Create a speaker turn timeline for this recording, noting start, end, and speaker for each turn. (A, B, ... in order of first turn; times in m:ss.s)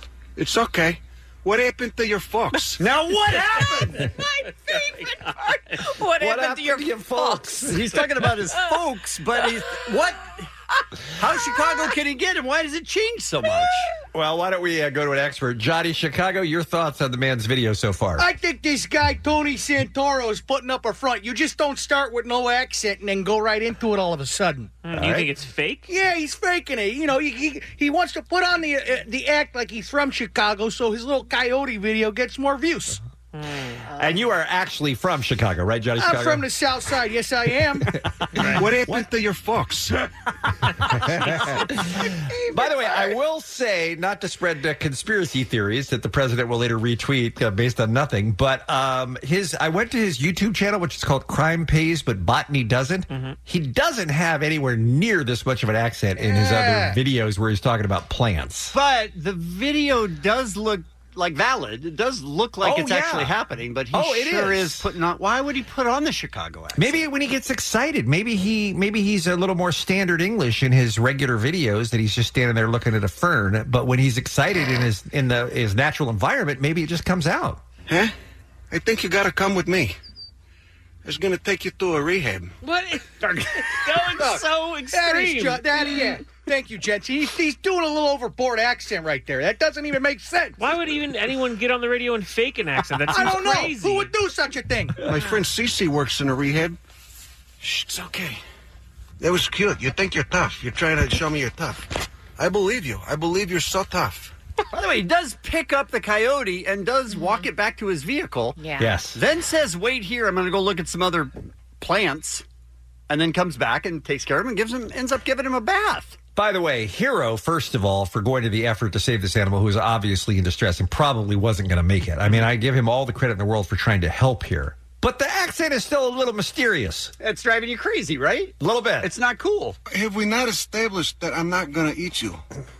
0:00.4-0:02.8 A
0:02.8-0:04.1 B
0:03.3-0:07.7 C
0:06.2-0:08.0 D
0:07.6-0:10.4 B
0:11.2-0:13.9 B
0:14.1-0:18.2 D
0:18.2-0:24.7 E
0:24.8-0:25.9 F
0:24.9-0:25.3 D
0:25.9-0:33.0 E
0:33.3-0:33.8 F
0:33.9-0:34.2 C
0:34.0-0:36.4 D
0:36.0-0:37.9 E
0:38.3-0:39.0 D
0:38.4-0:38.6 F
0:38.6-0:40.0 A
0:40.8-0:58.8 D
0:53.1-0:53.4 F
0:56.2-0:56.9 E
0:58.7-1:07.0 B
1:02.6-1:03.3 D
1:03.9-1:04.8 D
1:06.7-1:17.6 D
1:17.9-1:18.1 A
1:18.7-1:20.0 A
1:21.0-1:22.6 A
1:22.6-1:26.0 F
1:23.9-1:30.6 E
1:30.6-1:34.1 F
1:33.1-1:35.0 E
1:35.0-1:36.8 A
1:37.6-1:38.4 A
1:39.2-1:44.3 A
1:44.7-1:48.6 B
1:47.1-1:47.4 C
1:48.6-1:49.0 C
1:48.8-1:49.2 D
1:49.1-1:52.4 B
1:53.1-1:56.2 B
1:56.4-2:07.1 D
2:07.2-2:09.8 B
2:08.6-2:09.1 D
2:09.9-2:12.4 A